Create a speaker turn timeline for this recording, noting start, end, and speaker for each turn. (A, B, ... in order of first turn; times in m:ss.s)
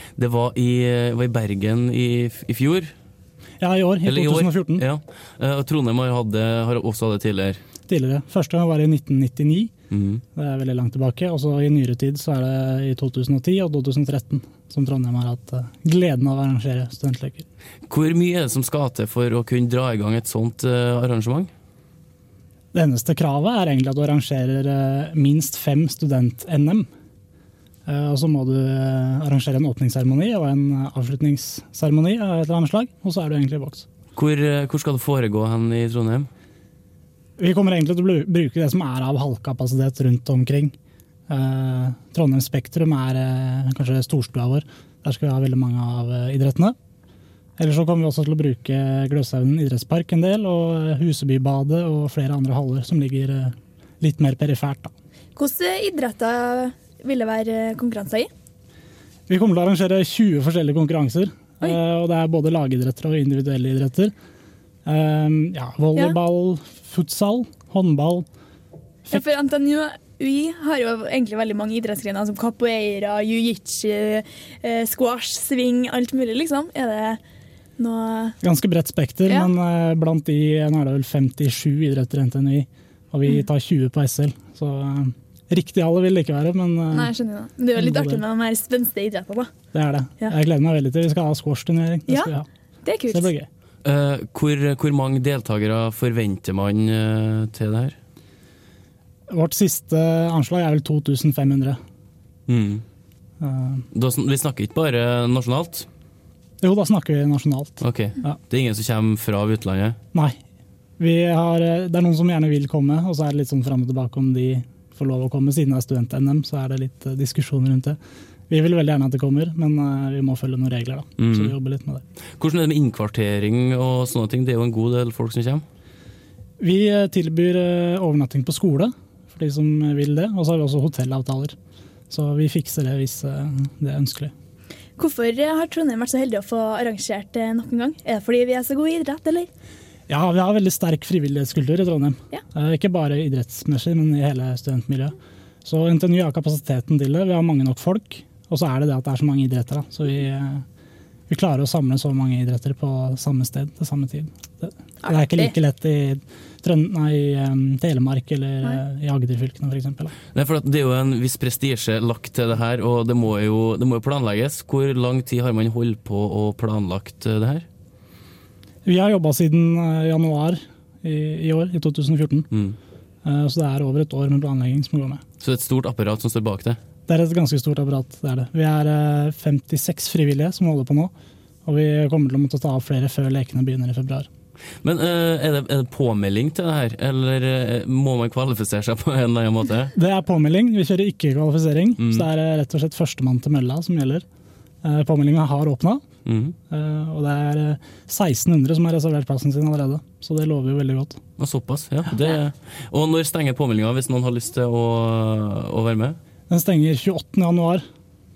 0:00.2-0:02.9 A
0:03.6-0:04.8 B
0:04.0-0:07.6 A
0:07.9-0:09.7 B
0:09.9-0:10.2 A
0:10.4-0:17.4 B
0:17.9-0:21.5 A
0:22.7-0:26.9 B
0:27.9-0:33.8 B
0:34.2-0:36.3 A
0:37.4-0:40.8 B
0:41.3-0:46.8 B
0:47.6-0:54.9 B
0:55.4-0:58.3 C
0:59.3-1:04.1 B
1:04.8-1:08.3 B
1:09.1-1:17.2 C
1:17.8-1:18.4 C
1:18.4-1:27.1 B
1:19.3-1:19.5 C
1:26.9-1:29.5 C
1:27.8-1:28.2 B
1:29.7-1:32.5 B
1:32.8-1:33.3 C
1:33.1-1:33.5 B
1:33.8-1:38.0 A
1:39.3-1:41.8 B
1:42.5-1:42.8 A
1:43.4-1:43.8 B
1:43.9-1:45.9 A
1:46.6-1:48.4 B
1:47.8-1:50.0 A
1:51.0-1:58.0 B
1:58.5-2:02.0 B
2:01.2-2:01.5 A
2:02.4-2:05.6 A
2:06.6-2:11.6 B
2:12.1-2:14.3 B
2:15.0-2:19.5 C
2:20.1-2:30.6 B
2:31.3-2:40.1 B
2:35.0-2:35.5 C
2:40.3-2:47.7 A
2:48.8-2:52.5 B
2:52.5-2:52.8 A
2:53.2-2:55.2 B
2:55.4-2:56.8 A
2:57.1-3:01.1 B
3:01.6-3:04.3 B
3:04.8-3:09.9 A
3:10.0-3:14.2 B
3:12.0-3:12.3 A
3:14.8-3:16.0 B
3:16.3-3:16.6 A
3:16.7-3:21.2 B
3:21.4-3:26.2 A
3:26.5-3:27.8 B